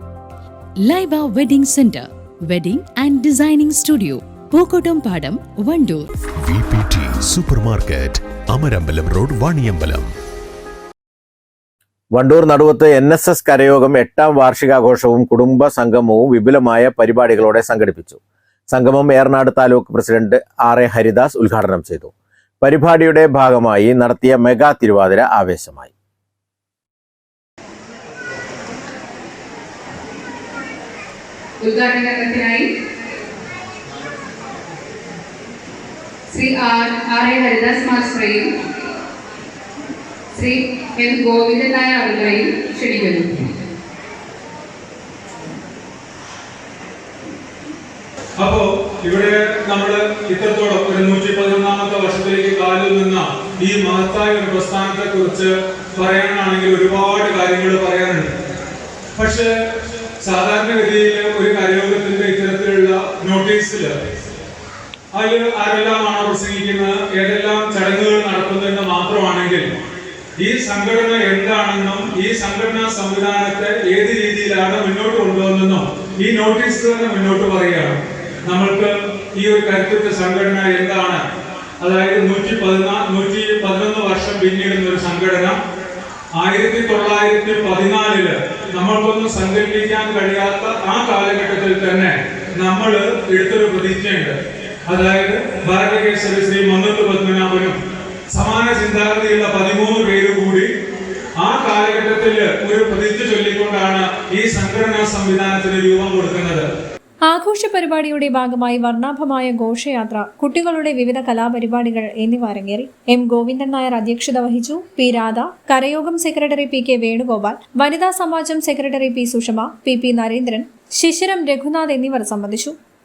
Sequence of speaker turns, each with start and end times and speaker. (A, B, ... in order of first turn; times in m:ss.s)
0:00.8-0:06.1 A
0:06.4-0:10.1 B
0:12.1-0:25.9 C
0:31.6-0:32.7 D
0:36.3-0:38.5 D
0:40.3-0:43.5 D
0:48.4-0:58.3 E
0:59.2-0:59.5 E
1:00.2-1:03.9 E
1:05.1-1:09.7 E
1:10.4-1:21.2 E
1:21.8-1:25.6 E
1:26.4-1:34.4 E
1:34.9-1:37.8 E
1:38.3-1:40.7 E
1:41.4-1:46.7 E
1:47.3-2:02.8 F